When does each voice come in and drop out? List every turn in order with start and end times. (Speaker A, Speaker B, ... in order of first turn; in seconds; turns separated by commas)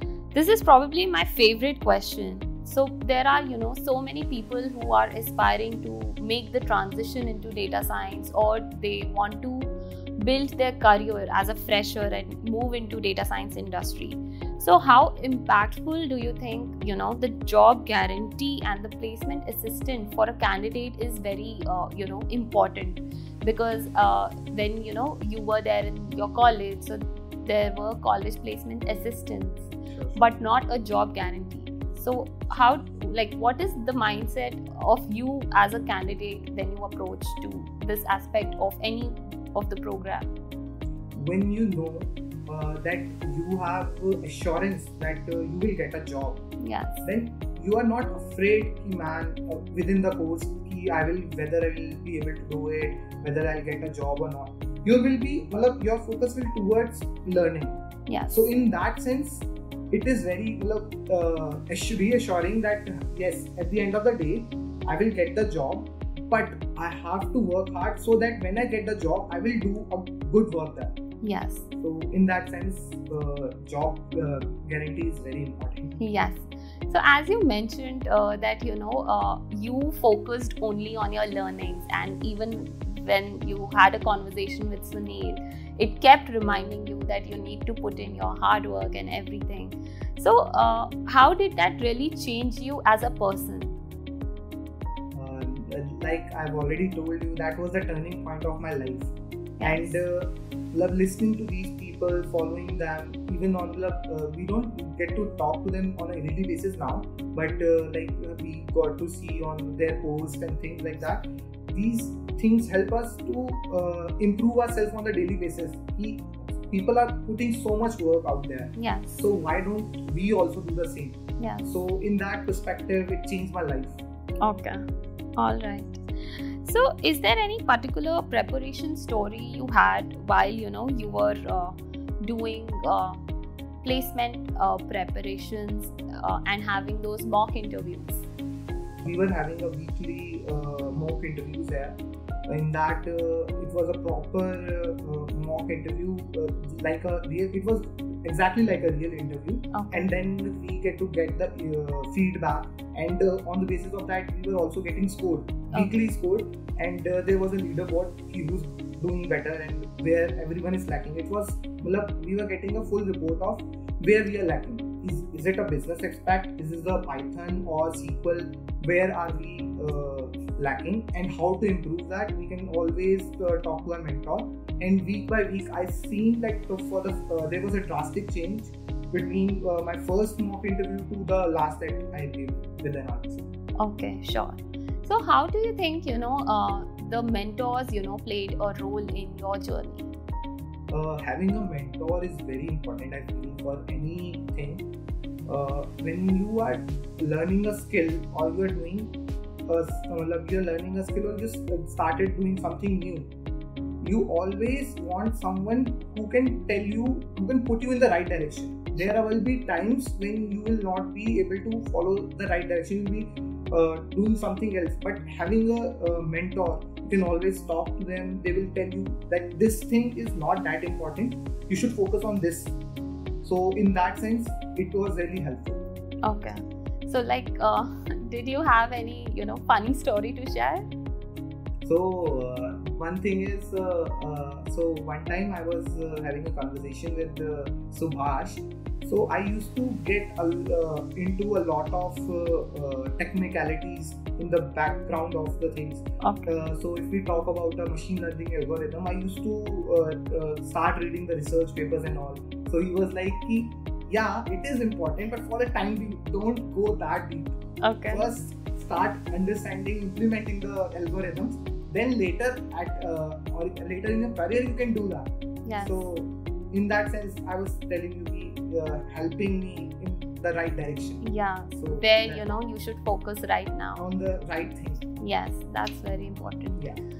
Speaker A: 0.3-40.3, Speaker B: 29.9-30.2, Speaker B: 41.1-46.5, Speaker A: 46.6-47.0, Speaker B: 47.0-57.8, Speaker A: 58.1-58.5, Speaker B: 58.3-71.0, Speaker A: 71.2-71.7, Speaker B: 71.8-76.1, Speaker A: 76.0-93.7, Speaker B: 95.1-124.0, Speaker A: 99.6-100.0, Speaker A: 118.8-119.1, Speaker A: 121.4-121.7, Speaker A: 124.4-124.8, Speaker A: 125.4-133.2, Speaker A: 133.8-138.3, Speaker B: 139.0-183.5, Speaker A: 149.7-150.1, Speaker A: 183.8-190.1, Speaker B: 190.9-194.9, Speaker B: 195.5-199.1, Speaker B: 199.7-203.3, Speaker B: 204.0-222.8, Speaker B: 223.4-225.8, Speaker A: 226.2-230.9, Speaker B: 231.8-257.6, Speaker A: 246.2-246.6, Speaker A: 257.8-258.3, Speaker B: 258.1-272.6, Speaker A: 265.6-266.1, Speaker A: 271.2-274.1, Speaker B: 274.0-275.0, Speaker A: 275.2-276.9, Speaker B: 276.8-277.0